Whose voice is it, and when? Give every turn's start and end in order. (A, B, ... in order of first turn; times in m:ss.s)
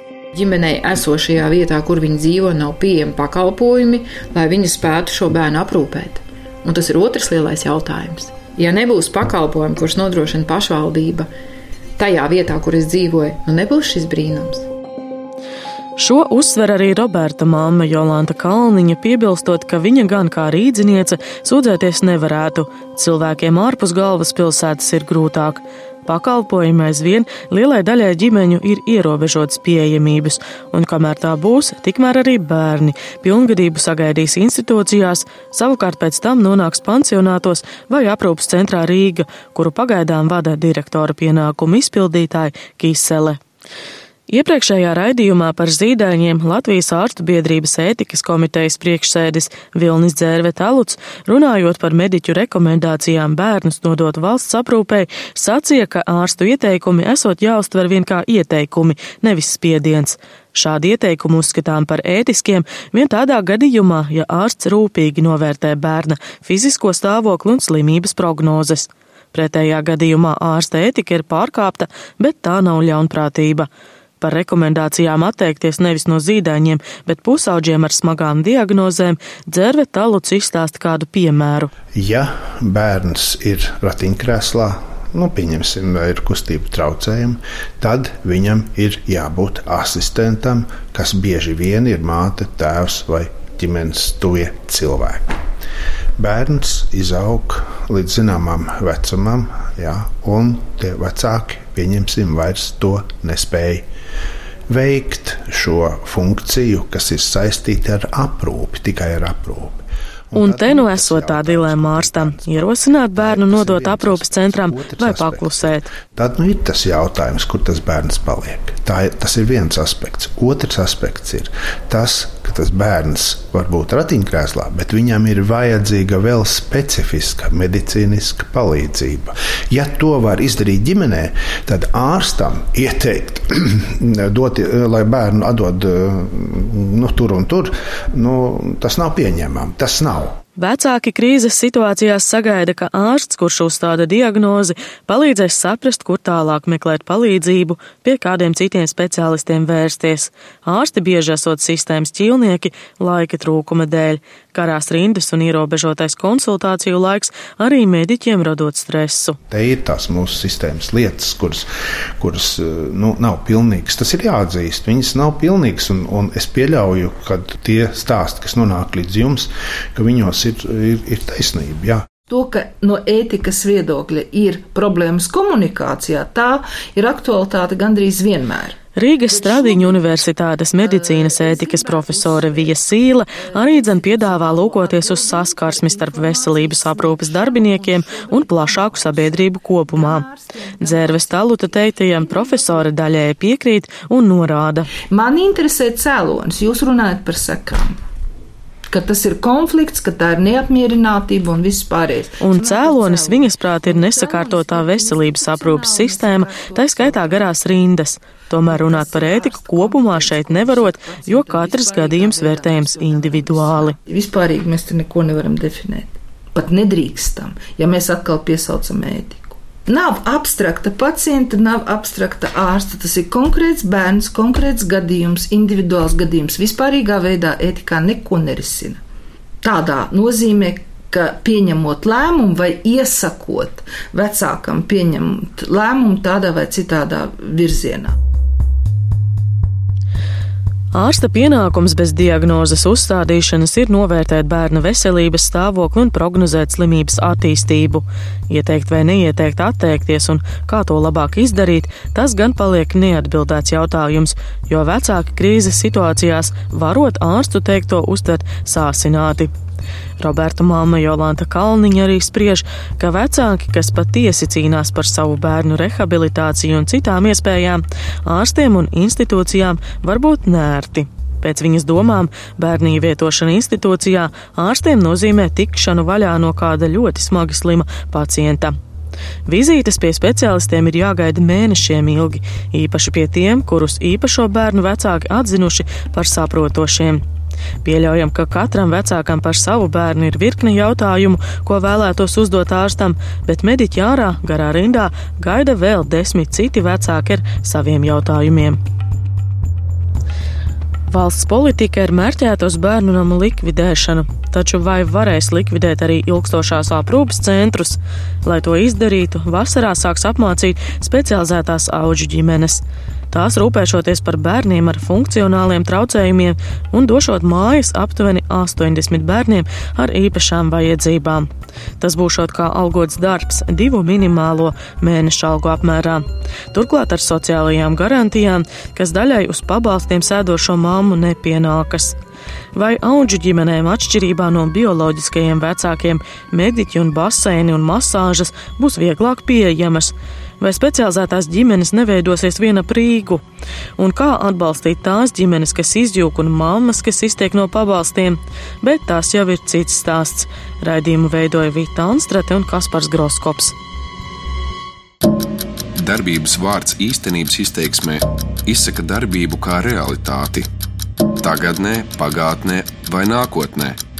0:00.3-0:11.3 A
0:12.0-0:14.6 A
0:16.0-0:43.4 B
0:44.3-1:13.7 B
1:14.2-1:21.7 B
1:21.9-1:35.3 C
1:36.2-1:43.8 C
1:44.7-2:20.4 C
1:50.3-1:55.9 B
2:20.6-2:39.4 B
2:39.5-2:41.7 C
2:42.2-2:52.0 C
2:52.3-2:58.8 D
2:59.0-3:10.2 B
2:59.4-3:00.1 D
3:00.8-3:02.6 D
3:03.7-3:05.4 D
3:06.4-3:09.1 D
3:09.9-3:11.3 D
3:10.8-3:14.9 B
3:12.2-3:12.7 D
3:15.1-3:17.9 D
3:18.9-3:27.6 D
3:22.4-3:34.0 B
3:28.7-3:49.0 D
3:49.6-3:58.1 D
4:00.9-4:19.5 B
4:20.2-4:38.7 B
4:39.4-4:47.2 B
4:47.8-4:58.8 B
5:01.1-5:32.2 B
5:32.7-5:43.4 B
5:44.0-5:53.7 B
5:56.0-6:00.7 E
6:01.4-6:04.0 E